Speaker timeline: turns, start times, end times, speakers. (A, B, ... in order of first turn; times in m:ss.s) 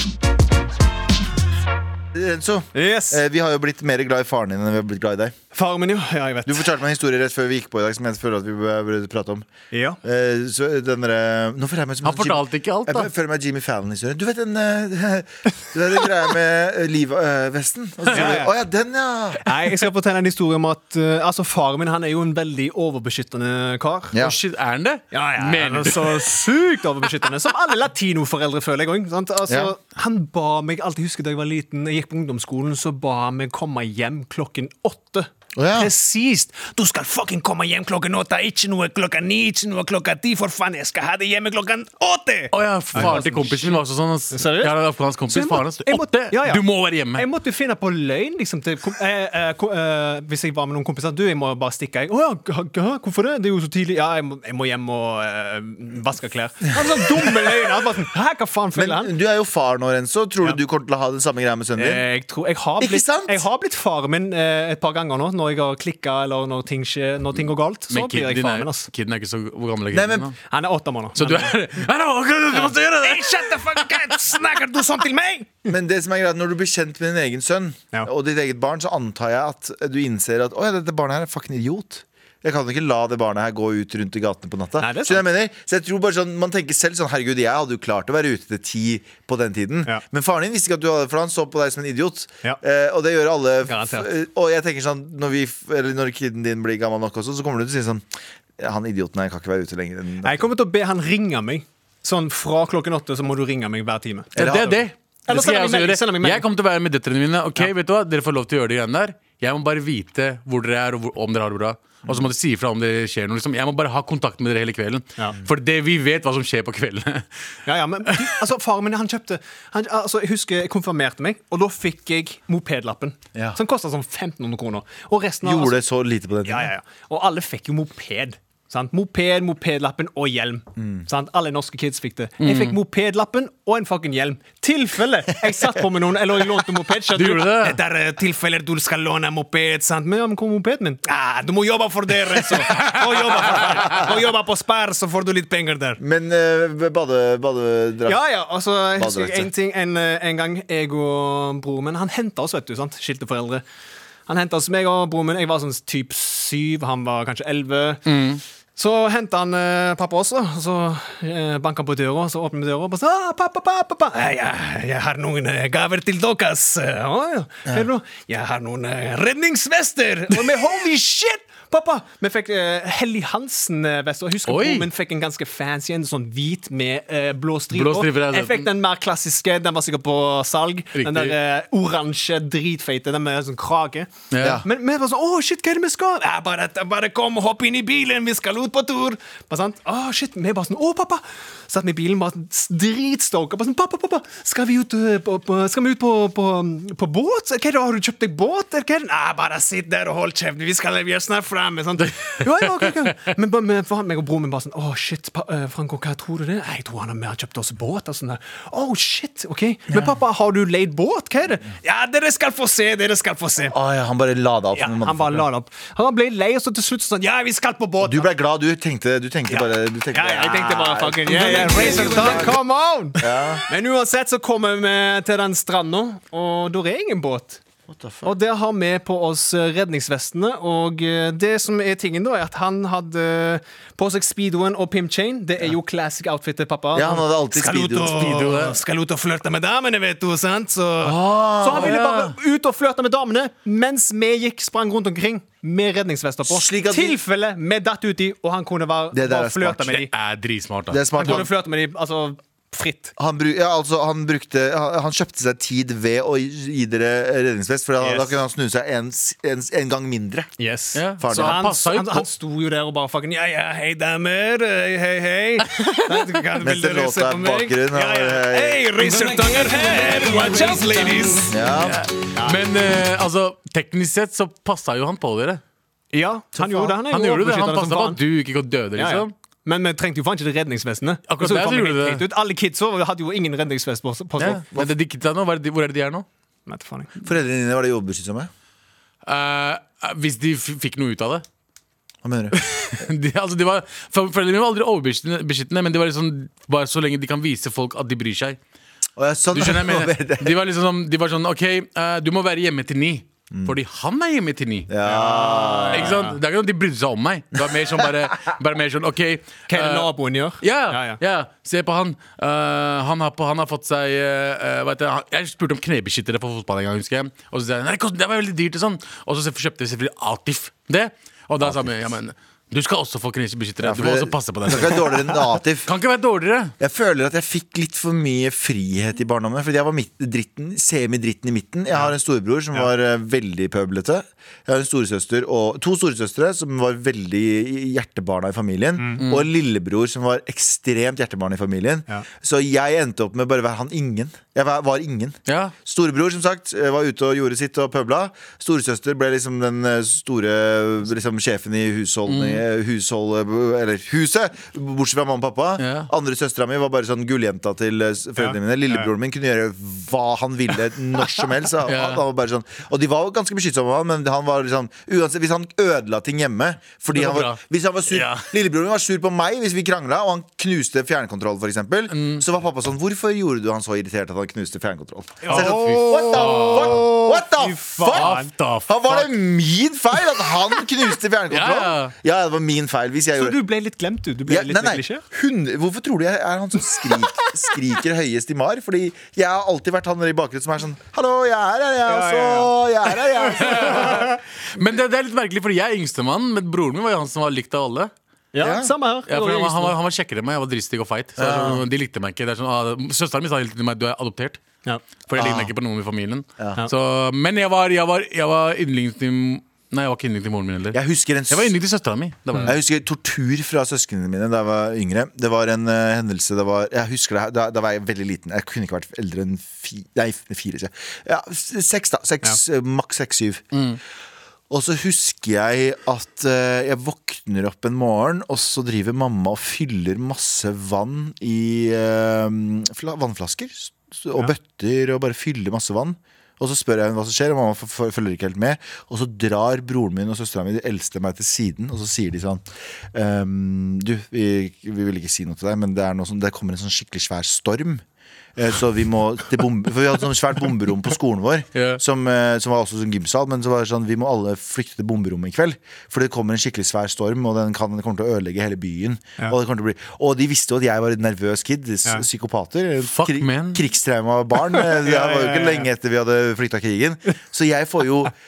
0:02.1-0:05.3 A
0:02.7-0:03.2 B
0:05.5-0:06.7 B
0:06.4-0:09.5 A
0:09.7-0:10.0 B
0:10.0-0:19.6 A
0:12.0-0:13.1 C
0:18.1-0:18.5 B
0:19.4-0:24.2 B
0:24.1-0:24.4 A
0:24.2-0:26.5 C
0:25.1-0:43.8 B
0:29.5-0:29.7 A
0:35.6-0:35.9 A
0:42.5-0:47.2 C
0:44.3-0:44.8 B
0:45.3-0:59.1 B
0:56.9-0:57.5 A
0:58.7-1:02.0 A
1:01.8-1:08.9 B
1:02.8-1:03.4 A
1:07.9-1:10.4 C
1:09.9-1:10.3 A
1:10.5-1:11.5 B
1:11.2-1:14.3 C
1:12.5-1:15.7 B
1:15.6-1:38.0 A
1:24.8-1:25.2 B
1:33.6-1:34.1 B
1:38.6-1:40.5 A
1:40.2-1:44.5 B
1:44.3-1:44.8 A
1:44.4-1:57.3 C
1:45.3-1:46.4 B
1:57.6-2:05.8 B
2:05.4-2:06.7 A
2:06.4-2:26.0 B
2:10.8-2:11.0 A
2:12.4-2:12.8 C
2:17.1-2:17.8 C
2:26.0-2:28.2 A
2:28.0-2:33.6 B
2:29.0-2:29.5 A
2:34.3-2:38.2 B
2:38.0-2:38.4 C
2:38.8-3:04.1 B
2:54.5-2:54.9 C
2:57.7-2:58.7 C
3:00.9-3:01.3 C
3:04.3-3:04.6 C
3:04.6-3:33.8 B
3:22.3-3:23.0 C
3:29.9-3:30.1 A
3:33.7-3:35.5 A
3:34.7-3:38.3 B
3:38.0-3:42.6 A
3:39.5-3:47.6 B
3:43.2-3:43.6 A
3:47.9-3:48.3 A
3:48.2-4:10.1 B
3:56.9-3:58.5 A
3:58.1-3:58.8 C
4:01.0-4:02.0 A
4:01.7-4:02.4 C
4:06.4-4:07.2 A
4:09.1-4:10.0 A
4:10.0-4:11.4 C
4:10.9-4:11.5 A
4:11.2-4:13.1 B
4:13.2-4:20.5 A
4:18.0-4:18.3 B
4:20.6-4:31.5 B
4:20.9-4:22.3 C
4:21.2-4:21.6 A
4:25.8-4:26.3 C
4:26.6-4:29.0 A
4:31.4-4:32.0 A
4:31.8-4:35.6 C
4:32.3-4:32.6 B
4:36.1-4:38.2 B
4:36.6-4:36.9 A
4:37.1-4:39.3 C
4:39.0-4:44.6 B
4:41.3-4:42.2 C
4:44.4-4:46.2 C
4:46.7-4:47.1 B
4:47.2-4:48.5 A
4:49.2-4:51.4 C
4:52.2-4:52.6 A
4:52.5-4:58.6 C
4:59.2-5:00.6 A
4:59.5-5:04.9 C
5:04.9-5:06.2 A
5:05.0-5:06.4 B
5:05.9-5:26.7 C
5:09.7-5:11.2 B
5:21.6-5:21.9 A
5:23.8-5:25.9 A
5:26.8-6:23.6 A
5:39.2-5:39.5 C
5:45.5-5:45.7 C
5:52.3-5:52.6 C
5:55.8-5:56.1 C
5:58.4-5:59.1 B
6:01.8-6:02.2 C
6:07.1-6:08.5 C
6:12.1-6:12.4 C
6:15.4-6:18.5 B
6:15.5-6:17.1 C
6:18.1-6:19.4 C
6:21.5-6:22.1 C
6:23.3-6:25.2 B
6:24.5-6:34.3 A
6:32.0-6:32.8 B
6:33.4-6:38.1 C
6:33.7-6:34.3 B
6:38.5-6:40.0 B
6:38.6-6:38.9 A
6:39.2-6:44.6 C
6:41.4-6:41.8 A
6:44.8-6:45.6 B
6:45.3-6:52.8 C
6:45.4-6:45.7 A
6:50.9-6:51.7 A
6:52.6-7:03.8 A
7:03.7-7:04.0 C
7:04.7-7:28.0 A
7:28.6-7:48.3 A
7:31.7-7:32.0 C
7:43.1-7:43.8 C
7:44.7-7:45.9 B